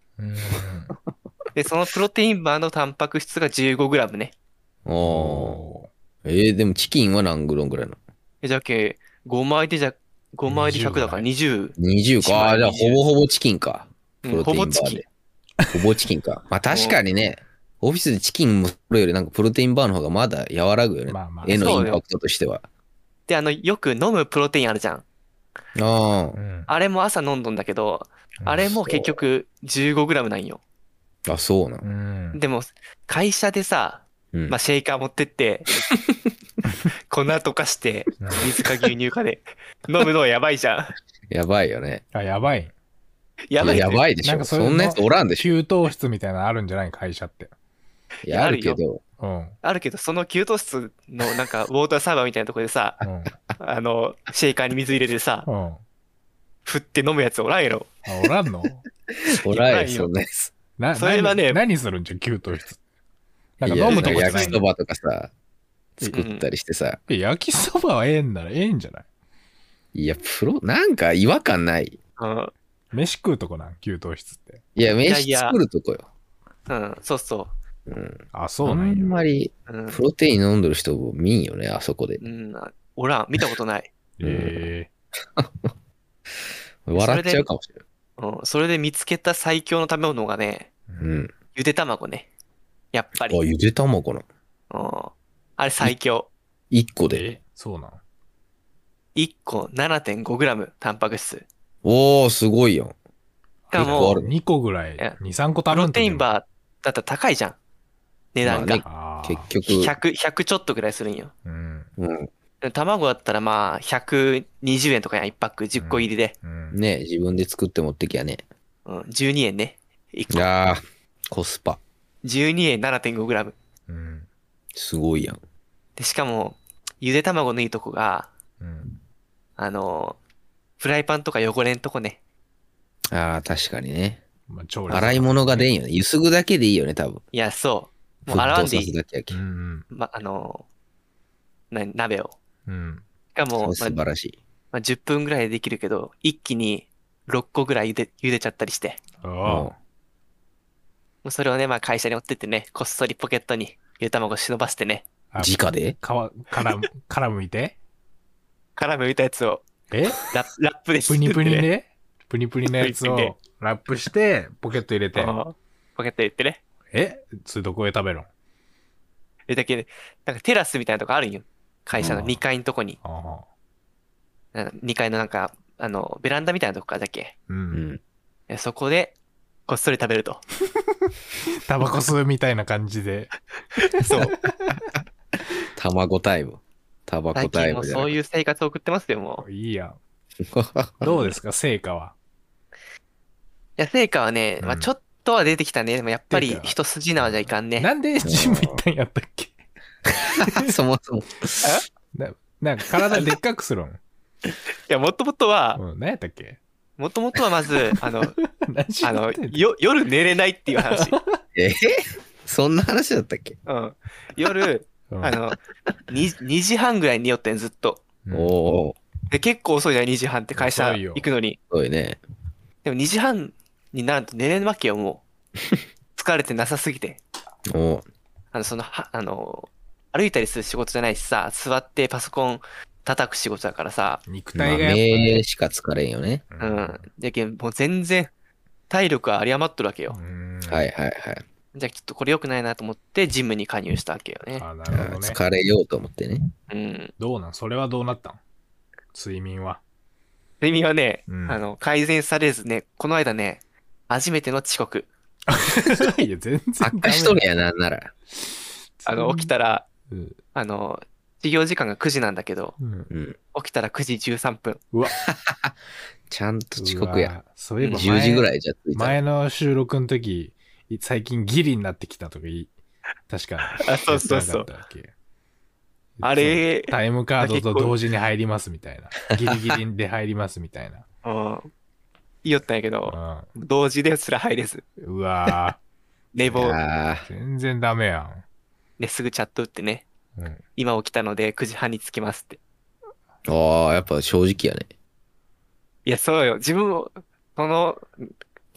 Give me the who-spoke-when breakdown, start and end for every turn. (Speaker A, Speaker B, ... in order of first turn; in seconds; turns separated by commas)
Speaker A: 0.2-0.9, Speaker B: 1.6-4.3, Speaker C: 4.8-5.6, Speaker A: 5.0-5.9, Speaker C: 6.2-8.0, Speaker B: 8.4-13.0, Speaker A: 10.5-11.3, Speaker C: 11.8-15.1, Speaker B: 14.2-15.1, Speaker C: 15.7-22.6, Speaker B: 16.7-17.0, Speaker A: 21.1-22.0, Speaker B: 21.6-22.0, Speaker B: 23.3-25.0, Speaker C: 25.8-26.4, Speaker A: 26.4-26.7, Speaker B: 26.7-30.6, Speaker A: 28.4-28.7, Speaker C: 28.7-29.2, Speaker C: 31.2-31.9, Speaker A: 31.8-32.4, Speaker B: 32.3-35.7, Speaker C: 34.3-34.6, Speaker B: 37.1-40.9, Speaker A: 38.2-38.5, Speaker C: 41.3-42.0, Speaker A: 42.1-42.7, Speaker B: 43.5-44.1, Speaker C: 43.6-45.5, Speaker A: 44.2-47.5, Speaker B: 48.2-48.8, Speaker C: 48.2-49.0, Speaker A: 49.2-49.6, Speaker B: 49.6-53.0, Speaker A: 53.0-53.3, Speaker B: 53.6-55.5, Speaker A: 55.4-55.8, Speaker B: 56.6-58.0, Speaker A: 58.1-58.8, Speaker C: 59.4-60.5, Speaker B: 59.5-60.1, Speaker A: 60.8-62.8, Speaker B: 61.0-61.6, Speaker A: 63.6-64.6, Speaker C: 63.6-65.3, Speaker B: 63.8-64.5, Speaker C: 66.0-67.0, Speaker B: 66.1-66.5, Speaker A: 67.1-69.0, Speaker C: 69.9-72.0, Speaker B: 72.2-72.5, Speaker A: 72.9-74.6, Speaker C: 74.8-76.1, Speaker B: 75.0-75.6, Speaker B: 76.7-77.5, Speaker C: 77.9-82.2, Speaker A: 78.3-79.2, Speaker B: 79.7-80.0, Speaker B: 82.2-83.9, Speaker A: 84.2-84.9, Speaker C: 84.2-84.7, Speaker C: 85.4-85.7, Speaker C: 86.8-87.8, Speaker B: 86.9-87.4, Speaker B: 88.2-90.7, Speaker C: 91.0-91.3, Speaker B: 91.5-92.3, Speaker B: 92.9-93.4, Speaker C: 93.3-94.2, Speaker B: 94.7-96.3, Speaker C: 96.7-97.2, Speaker A: 97.1-98.0, Speaker B: 99.1-101.5, Speaker C: 101.8-102.9, Speaker A: 103.7-106.3, Speaker B: 103.7-104.2, Speaker C: 103.8-104.3, Speaker B: 105.7-107.6, Speaker B: 108.3-108.8, Speaker C: 108.4-109.9, Speaker A: 108.6-109.5, Speaker B: 109.7-111.3, Speaker A: 111.4-111.9, Speaker C: 112.0-112.3, Speaker B: 112.6-116.3, Speaker A: 115.8-116.8, Speaker C: 116.7-118.4, Speaker B: 118.9-120.5, Speaker C: 120.3-121.8, Speaker B: 122.2-123.6, Speaker A: 123.9-124.3, Speaker C: 124.8-125.4, Speaker B: 126.0-128.3, Speaker A: 128.6-129.0, Speaker B: 129.6-130.2, Speaker B: 130.8-132.2, Speaker C: 133.1-134.2, Speaker A: 134.5-135.7, Speaker C: 134.9-137.2, Speaker B: 137.3-138.9, Speaker C: 138.3-139.4, Speaker A: 139.3-139.8, Speaker B: 139.9-140.6, Speaker B: 141.7-142.4, Speaker A: 142.7-143.0, Speaker B: 143.3-144.0, Speaker C: 143.6-144.4, Speaker B: 144.7-149.0, Speaker A: 149.2-149.7, Speaker C: 149.4-149.7, Speaker B: 151.2-155.1, Speaker A: 155.3-157.8, Speaker C: 155.4-155.9, Speaker B: 158.8-159.7, Speaker A: 159.9-160.3, Speaker B: 160.3-161.7, Speaker A: 161.1-165.4, Speaker B: 162.7-163.3, Speaker B: 165.1-166.6, Speaker A: 166.9-168.3, Speaker B: 169.5-173.0, Speaker C: 172.0-172.3, Speaker A: 172.1-172.3, Speaker A: 173.0-173.4, Speaker B: 174.5-177.3, Speaker A: 177.5-177.8, Speaker C: 177.7-178.0, Speaker B: 178.5-179.2, Speaker B: 179.7-180.4, Speaker A: 181.7-183.4, Speaker B: 183.8-184.3, Speaker A: 184.3-184.8, Speaker C: 185.8-188.2, Speaker B: 187.3-189.4, Speaker A: 189.4-190.0, Speaker C: 190.5-191.1, Speaker A: 191.0-192.1, Speaker B: 191.0-191.3, Speaker B: 193.8-197.9, Speaker A: 194.6-194.9, Speaker A: 196.3-199.6, Speaker C: 198.2-198.8, Speaker A: 200.1-200.7, Speaker C: 200.4-201.8, Speaker A: 202.1-204.0, Speaker B: 204.9-205.8, Speaker A: 205.8-206.6, Speaker B: 207.0-208.3, Speaker A: 208.4-209.7, Speaker B: 209.0-211.1, Speaker A: 210.9-211.4, Speaker C: 211.6-213.6, Speaker B: 213.7-218.0, Speaker A: 215.1-215.4, Speaker A: 218.2-218.6, Speaker C: 218.3-219.0, Speaker B: 219.3-221.6, Speaker A: 220.6-221.3, Speaker C: 221.7-222.2, Speaker B: 222.8-225.2, Speaker B: 226.1-227.2, Speaker C: 227.7-228.1, Speaker B: 228.5-234.2, Speaker A: 234.2-235.4, Speaker C: 234.6-236.4, Speaker A: 236.5-237.1, Speaker B: 236.6-238.3, Speaker B: 238.9-240.2, Speaker A: 240.1-240.9, Speaker C: 240.7-241.4, Speaker B: 241.8-244.7, Speaker A: 244.6-245.4, Speaker C: 244.9-246.5, Speaker B: 246.7-247.1, Speaker A: 247.2-248.4, Speaker A: 249.1-249.8, Speaker B: 250.6-255.1, Speaker A: 251.3-251.6, Speaker A: 255.5-257.4, Speaker C: 256.8-258.1, Speaker A: 258.3-259.5, Speaker B: 259.1-259.9, Speaker A: 260.1-260.4, Speaker B: 260.5-262.8, Speaker A: 262.8-263.1, Speaker C: 263.1-263.4, Speaker B: 263.5-264.8, Speaker A: 264.9-265.2, Speaker C: 265.2-265.7, Speaker C: 266.3-267.3, Speaker A: 266.8-272.7, Speaker B: 267.8-268.1, Speaker C: 267.9-269.2, Speaker A: 273.3-275.1, Speaker B: 273.8-274.7, Speaker A: 276.2-281.0, Speaker B: 276.2-278.0, Speaker C: 279.4-279.7, Speaker B: 281.2-281.7, Speaker B: 282.4-284.8, Speaker A: 283.1-283.5, Speaker A: 285.0-285.8, Speaker B: 286.3-286.8, Speaker C: 286.5-287.3, Speaker A: 287.2-288.4, Speaker B: 289.0-290.1, Speaker A: 290.4-290.6, Speaker B: 290.8-292.6, Speaker C: 293.5-294.9, Speaker B: 296.1-298.3